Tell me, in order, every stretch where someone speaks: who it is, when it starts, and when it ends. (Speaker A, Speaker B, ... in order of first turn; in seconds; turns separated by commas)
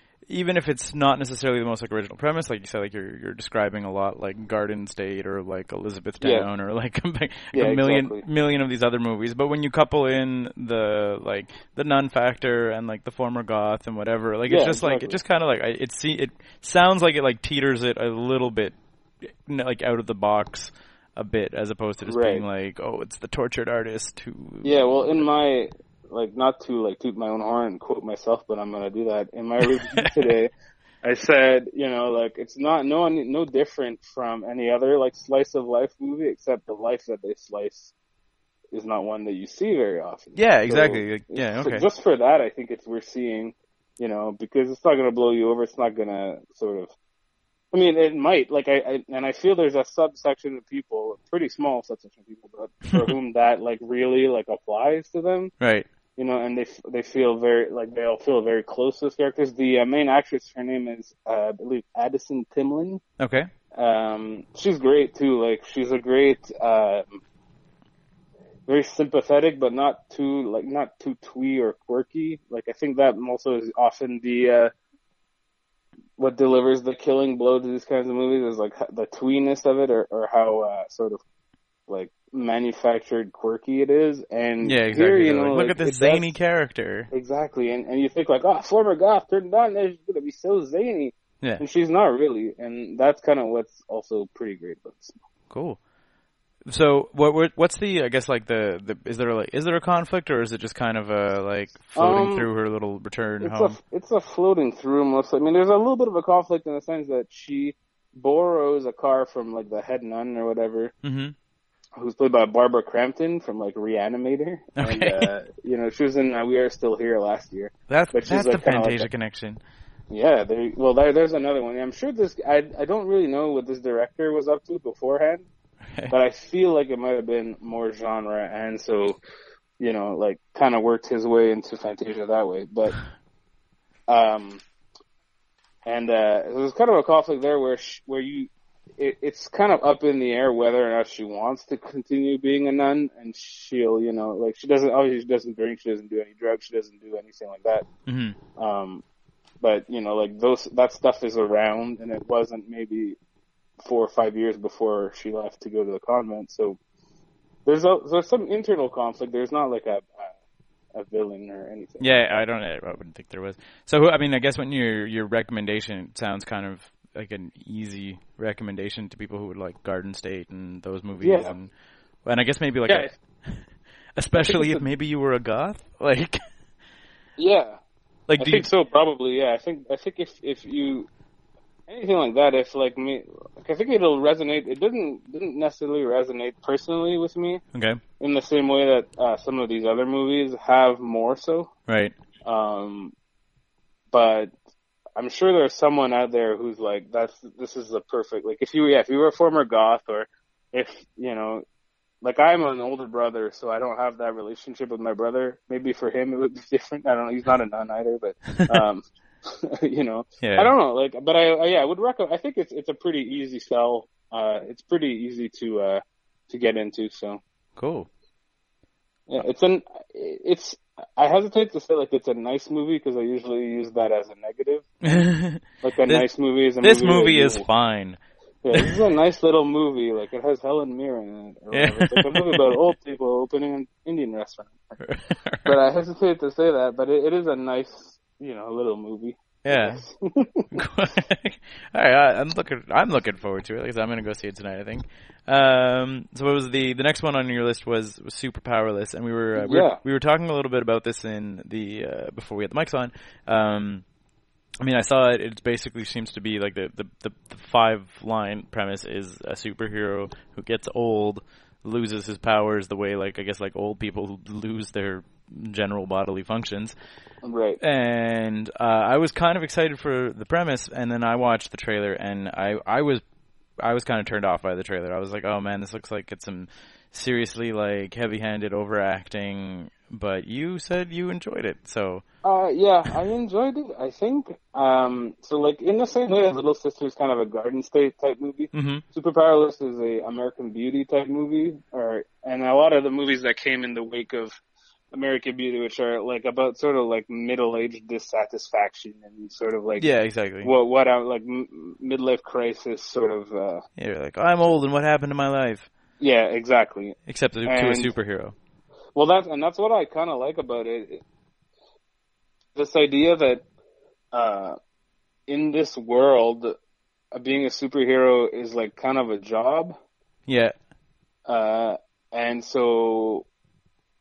Speaker A: 0.3-25.2, Speaker B: 6.2-6.5, Speaker B: 7.5-8.2, Speaker B: 14.5-15.2, Speaker B: 22.1-22.4, Speaker B: 24.6-37.9, Speaker A: 29.6-30.1, Speaker B: 38.7-46.9, Speaker A: 40.3-41.9, Speaker B: 47.7-55.5, Speaker A: 55.6-55.9, Speaker B: 56.1-63.0, Speaker A: 63.2-63.5, Speaker B: 63.8-67.2, Speaker B: 68.7-74.7, Speaker B: 76.2-81.2, Speaker B: 81.9-86.3, Speaker A: 84.6-87.1, Speaker B: 87.1-95.2, Speaker A: 95.5-95.8, Speaker A: 96.7-103.8, Speaker B: 101.9-102.5, Speaker B: 103.4-110.9, Speaker A: 111.0-111.3, Speaker B: 112.0-119.1, Speaker A: 114.8-115.3, Speaker A: 117.9-119.6, Speaker B: 120.1-125.5, Speaker B: 126.1-129.2, Speaker B: 129.8-132.9, Speaker B: 134.1-134.6, Speaker B: 135.8-147.8, Speaker A: 148.1-148.4, Speaker B: 148.6-149.0, Speaker B: 149.6-153.2, Speaker B: 153.8-156.8, Speaker B: 157.7-160.3, Speaker B: 160.9-162.4, Speaker A: 162.0-171.7, Speaker B: 171.2-171.5, Speaker A: 172.2-173.6, Speaker B: 172.9-173.1, Speaker A: 174.2-176.4, Speaker B: 174.4-174.8, Speaker B: 177.4-177.8, Speaker A: 178.3-178.7, Speaker B: 178.4-181.1, Speaker B: 181.9-187.6, Speaker A: 187.7-188.0, Speaker B: 188.2-191.7, Speaker A: 191.9-192.1, Speaker B: 192.4-193.1, Speaker B: 194.1-194.5, Speaker B: 195.2-201.6, Speaker B: 202.2-217.4, Speaker A: 208.6-208.8, Speaker A: 210.4-210.7, Speaker A: 217.8-218.1, Speaker B: 219.3-225.3, Speaker A: 225.0-226.2, Speaker B: 225.8-227.6, Speaker A: 226.8-228.2, Speaker B: 228.6-234.8, Speaker A: 228.7-229.0, Speaker A: 231.7-232.8, Speaker A: 235.0-235.7, Speaker B: 235.6-240.7, Speaker A: 239.6-240.0, Speaker A: 240.7-254.0, Speaker B: 249.6-250.0, Speaker A: 254.8-266.9, Speaker B: 267.4-267.8, Speaker A: 267.8-273.2, Speaker A: 273.8-282.2, Speaker B: 282.4-294.6, Speaker A: 288.7-289.0, Speaker B: 295.1-300.1, Speaker A: 300.0-300.7, Speaker B: 300.6-303.8, Speaker A: 304.0-305.9, Speaker B: 306.2-308.1, Speaker A: 307.2-308.5, Speaker B: 309.1-311.2, Speaker B: 312.8-313.6, Speaker B: 314.3-314.8, Speaker B: 315.5-316.8, Speaker B: 317.3-319.9, Speaker A: 320.5-320.7, Speaker B: 321.5-323.4